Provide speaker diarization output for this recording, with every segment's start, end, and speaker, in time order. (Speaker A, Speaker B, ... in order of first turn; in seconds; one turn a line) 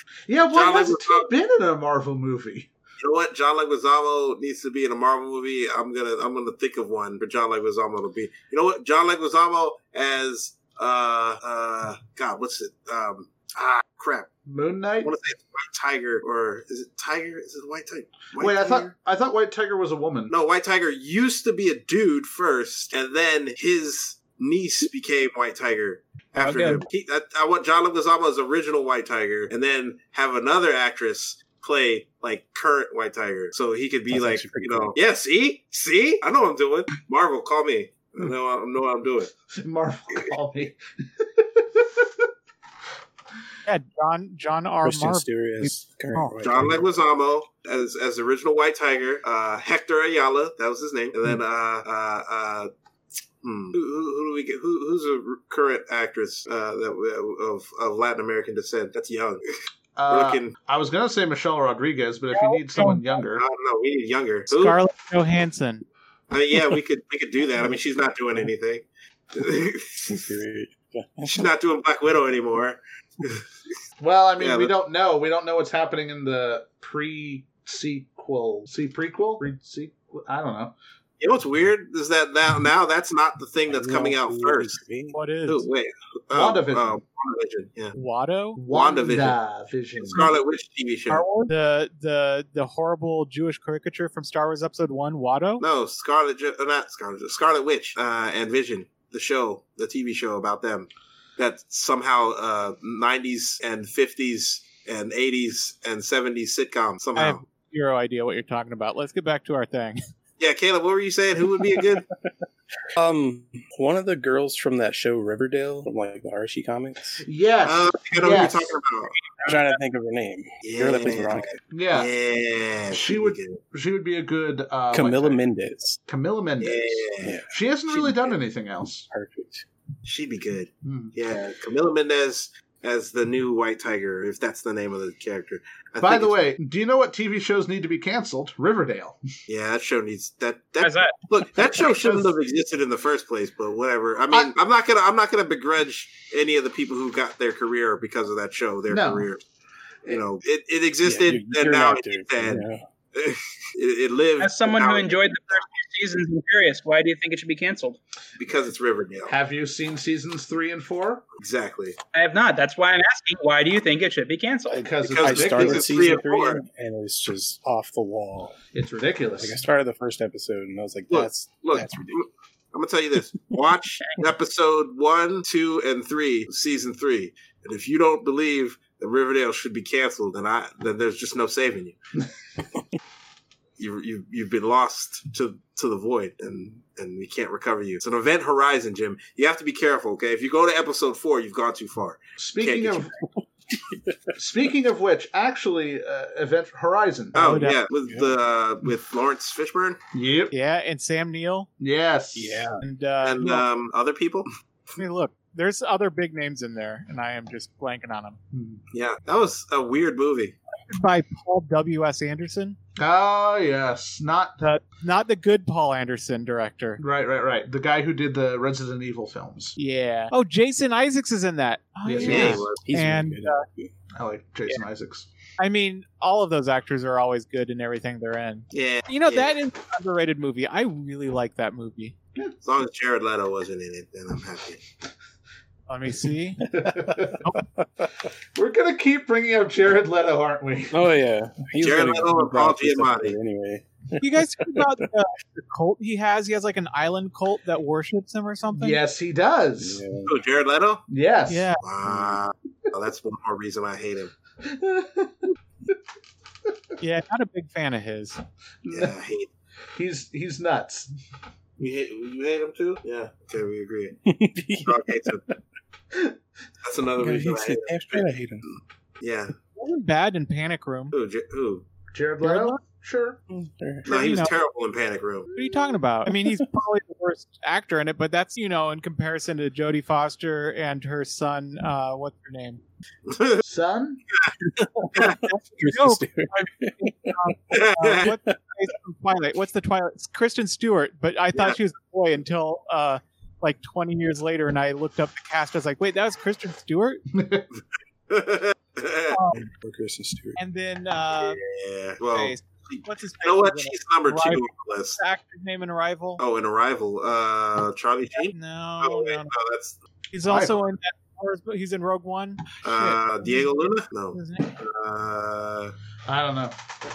Speaker A: 0.3-2.7
Speaker B: 0.5-1.3
Speaker B: 3.0-14.3
Speaker A: 14.4-15.1
Speaker B: 15.0-18.9
Speaker A: 18.4-20.3
Speaker B: 20.3-39.3
Speaker C: 26.4-26.8
Speaker D: 34.1-34.9
Speaker A: 39.5-42.3
Speaker E: 43.6-46.4
Speaker D: 44.8-46.9
Speaker B: 46.4-52.7
Speaker B: 53.4-59.4
Speaker A: 60.0-63.4
Speaker B: 60.1-60.5
Speaker E: 62.3-63.2
Speaker B: 63.4-64.8
Speaker E: 64.5-65.8
Speaker B: 66.3-70.3
Speaker D: 70.0-71.5
Speaker B: 71.2-73.4
Speaker A: 74.0-80.7
Speaker B: 74.4-74.7
Speaker B: 81.2-84.8
Speaker D: 83.7-85.2
Speaker E: 85.1-85.7
Speaker B: 85.5-87.9
Speaker A: 86.3-87.0
Speaker E: 87.9-88.6
Speaker A: 88.5-90.3
Speaker B: 88.7-89.3
Speaker B: 90.0-91.3
Speaker E: 91.1-95.6
Speaker B: 95.6-107.4
Speaker E: 107.2-110.0
Speaker B: 110.4-112.0
Speaker D: 111.8-112.1
Speaker D: 112.9-117.2
Speaker A: 117.2-118.8
Speaker B: 117.6-119.1
Speaker E: 119.4-119.8
Speaker D: 119.4-121.6
Speaker B: 120.6-123.6
Speaker A: 121.7-122.1
Speaker A: 122.9-125.4
Speaker D: 124.9-126.0
Speaker A: 126.1-129.1
Speaker B: 126.6-127.3
Speaker D: 127.2-128.2
Speaker D: 129.1-129.6
Speaker B: 130.0-136.3
Speaker A: 130.8-131.1
Speaker A: 136.0-139.2
Speaker B: 139.5-149.4
Speaker C: 140.8-141.1
Speaker A: 141.8-142.3
Speaker A: 148.9-149.3
Speaker B: 150.1-155.3
Speaker D: 151.0-152.8
Speaker C: 154.4-158.0
Speaker B: 158.4-159.3
Speaker A: 159.3-161.2
Speaker B: 161.4-162.0
Speaker C: 162.1-164.9
Speaker A: 164.7-166.2
Speaker B: 165.0-166.6
Speaker D: 165.2-168.6
Speaker A: 168.7-169.6
Speaker D: 169.4-172.2
Speaker B: 171.1-181.9
Speaker B: 183.8-193.1
Speaker A: 192.4-193.1
Speaker A: 194.3-197.5
Speaker B: 197.3-200.0
Speaker E: 197.3-197.8
Speaker D: 198.1-198.3
Speaker A: 200.1-200.5
Speaker E: 200.5-201.7
Speaker A: 201.8-202.7
Speaker D: 202.3-202.8
Speaker E: 202.8-203.7
Speaker B: 203.2-204.5
Speaker E: 205.0-208.4
Speaker A: 208.5-208.8
Speaker B: 208.9-210.5
Speaker E: 210.9-212.8
Speaker A: 213.0-214.6
Speaker E: 214.6-217.0
Speaker A: 217.0-219.8
Speaker E: 219.8-223.6
Speaker A: 222.0-222.6
Speaker B: 222.2-222.8
Speaker D: 222.4-223.9
Speaker A: 224.1-225.3
Speaker E: 225.6-232.1
Speaker B: 228.7-229.5
Speaker B: 232.6-234.8
Speaker E: 235.9-236.7
Speaker D: 236.7-238.1
Speaker A: 236.7-237.4
Speaker A: 238.5-241.0
Speaker D: 240.9-245.1
Speaker B: 241.8-243.3
Speaker E: 244.2-249.0
Speaker A: 248.7-250.0
Speaker D: 249.8-250.3
Speaker B: 250.3-251.0
Speaker A: 251.1-251.7
Speaker E: 251.5-251.8
Speaker B: 251.8-254.3
Speaker D: 252.1-252.4
Speaker A: 254.6-255.5
Speaker E: 257.0-258.4
Speaker A: 258.8-259.1
Speaker B: 258.9-259.5
Speaker A: 259.9-261.1
Speaker B: 261.8-264.2
Speaker D: 264.2-265.5
Speaker B: 264.8-265.4
Speaker B: 266.8-268.3
Speaker D: 267.2-268.6
Speaker B: 269.2-269.5
Speaker E: 269.8-271.1
Speaker B: 271.1-271.8
Speaker A: 272.1-273.4
Speaker E: 272.4-272.8
Speaker D: 273.5-274.1
Speaker E: 274.1-274.5
Speaker B: 274.1-275.5
Speaker E: 275.5-282.8
Speaker B: 283.3-283.6
Speaker A: 283.6-284.2
Speaker D: 284.6-287.5
Speaker E: 285.2-297.2
Speaker B: 287.7-288.3
Speaker D: 288.2-288.6
Speaker A: 297.3-297.6
Speaker B: 298.3-299.4
Speaker E: 299.3-299.6
Speaker D: 299.7-300.6
Speaker E: 300.6-301.6
Speaker B: 301.4-305.2
Speaker E: 302.3-306.4
Speaker B: 306.4-310.0
Speaker E: 308.5-309.5
Speaker E: 310.3-312.6
Speaker A: 310.5-310.8
Speaker B: 312.8-315.9
Speaker A: 312.9-313.2
Speaker E: 314.3-314.8
Speaker A: 316.2-316.8